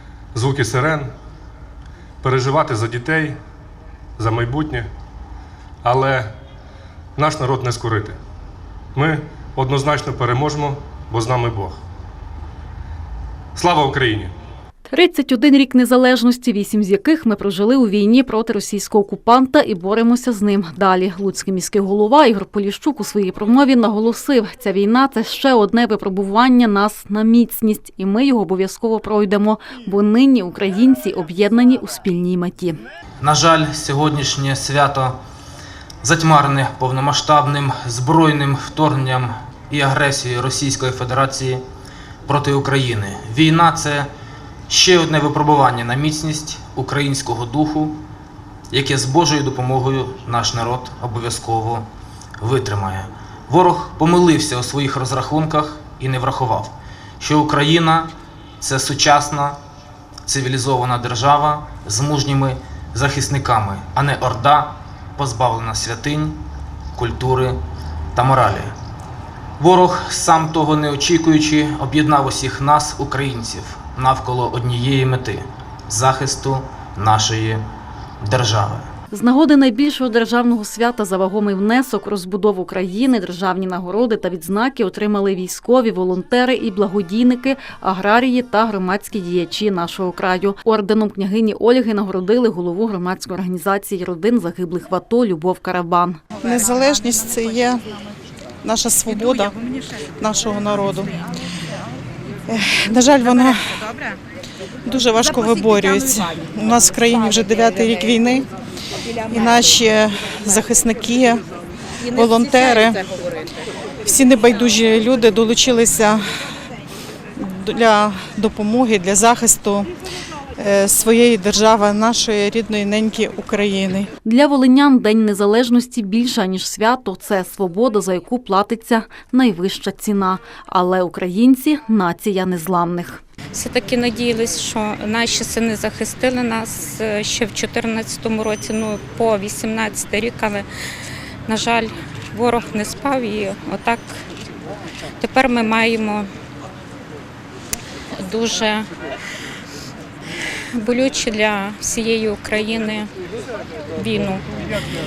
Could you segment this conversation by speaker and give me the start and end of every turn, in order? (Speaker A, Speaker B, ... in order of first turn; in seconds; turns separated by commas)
Speaker A: 0.3-1.1, Speaker A: 2.2-3.4, Speaker A: 4.2-4.9, Speaker A: 5.8-6.3, Speaker A: 7.2-8.2, Speaker A: 8.9-11.8, Speaker A: 13.5-14.3, Speaker B: 14.9-32.8, Speaker C: 33.2-35.1, Speaker C: 36.0-41.6, Speaker C: 42.3-44.1, Speaker C: 44.7-48.0, Speaker C: 48.7-51.9, Speaker C: 52.4-59.6, Speaker C: 60.3-66.4, Speaker C: 67.0-67.6, Speaker C: 68.1-68.7, Speaker C: 69.6-77.6, Speaker C: 78.2-78.9, Speaker B: 79.1-96.2, Speaker D: 96.4-97.8, Speaker D: 98.6-99.5, Speaker D: 100.2-101.2, Speaker D: 102.5-103.9, Speaker D: 104.8-108.5, Speaker D: 109.3-111.4, Speaker D: 112.1-113.0, Speaker D: 114.0-116.2, Speaker D: 117.4-119.9, Speaker D: 120.6-124.1, Speaker B: 124.2-133.2, Speaker E: 133.5-140.7, Speaker E: 141.5-144.2, Speaker E: 145.2-146.3, Speaker E: 148.2-148.9, Speaker E: 150.7-153.1, Speaker E: 154.0-154.4